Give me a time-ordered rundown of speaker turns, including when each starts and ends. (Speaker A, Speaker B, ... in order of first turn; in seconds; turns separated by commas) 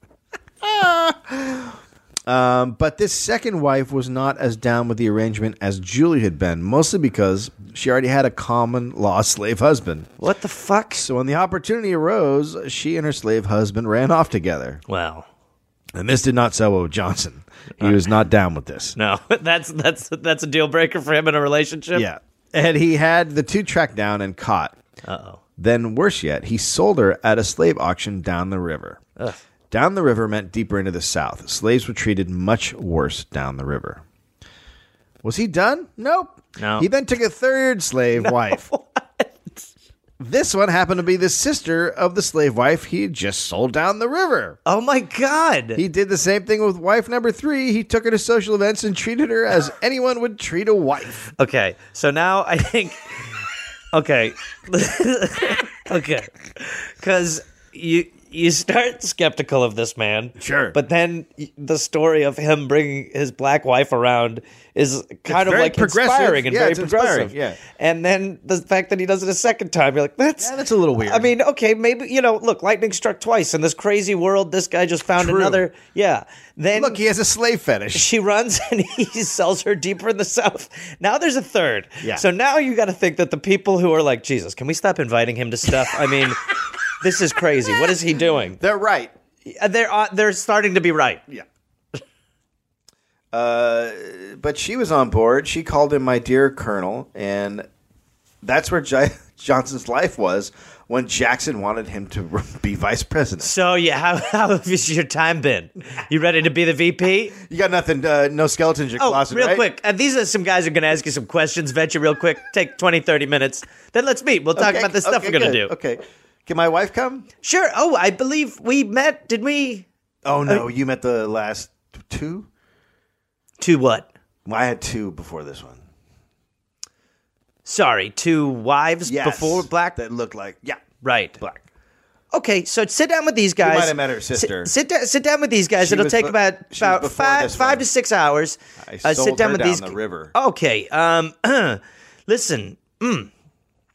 Speaker A: 0.6-10.1, Speaker B: 10.2-11.1, Speaker A: 11.0-14.8, Speaker B: 14.9-15.3, Speaker A: 15.9-19.0, Speaker B: 19.0-22.1, Speaker A: 21.9-24.8, Speaker B: 25.0-25.4, Speaker A: 25.6-29.0, Speaker A: 29.7-34.0, Speaker A: 35.2-38.7, Speaker B: 36.6-36.9, Speaker B: 38.2-39.7, Speaker A: 40.2-44.6, Speaker B: 44.7-45.8, Speaker A: 45.8-51.3, Speaker B: 51.4-53.4, Speaker B: 53.9-77.0, Speaker A: 60.4-60.8, Speaker A: 65.3-67.6, Speaker A: 70.4-71.3, Speaker A: 75.2-75.7, Speaker A: 76.7-78.1, Speaker B: 77.9-86.4, Speaker B: 87.0-88.6, Speaker A: 88.6-89.1, Speaker B: 89.5-91.2, Speaker A: 93.3-97.7, Speaker A: 98.4-103.5, Speaker B: 103.4-107.4, Speaker A: 107.4-109.7, Speaker B: 109.0-115.7, Speaker A: 114.5-117.3, Speaker B: 117.4-119.9, Speaker A: 120.2-122.5, Speaker B: 123.6-124.1, Speaker A: 124.5-125.8, Speaker B: 127.7-130.0, Speaker A: 129.1-130.8, Speaker B: 131.0-131.4, Speaker B: 132.3-143.3, Speaker A: 133.6-134.7, Speaker A: 135.8-137.9, Speaker A: 138.8-140.3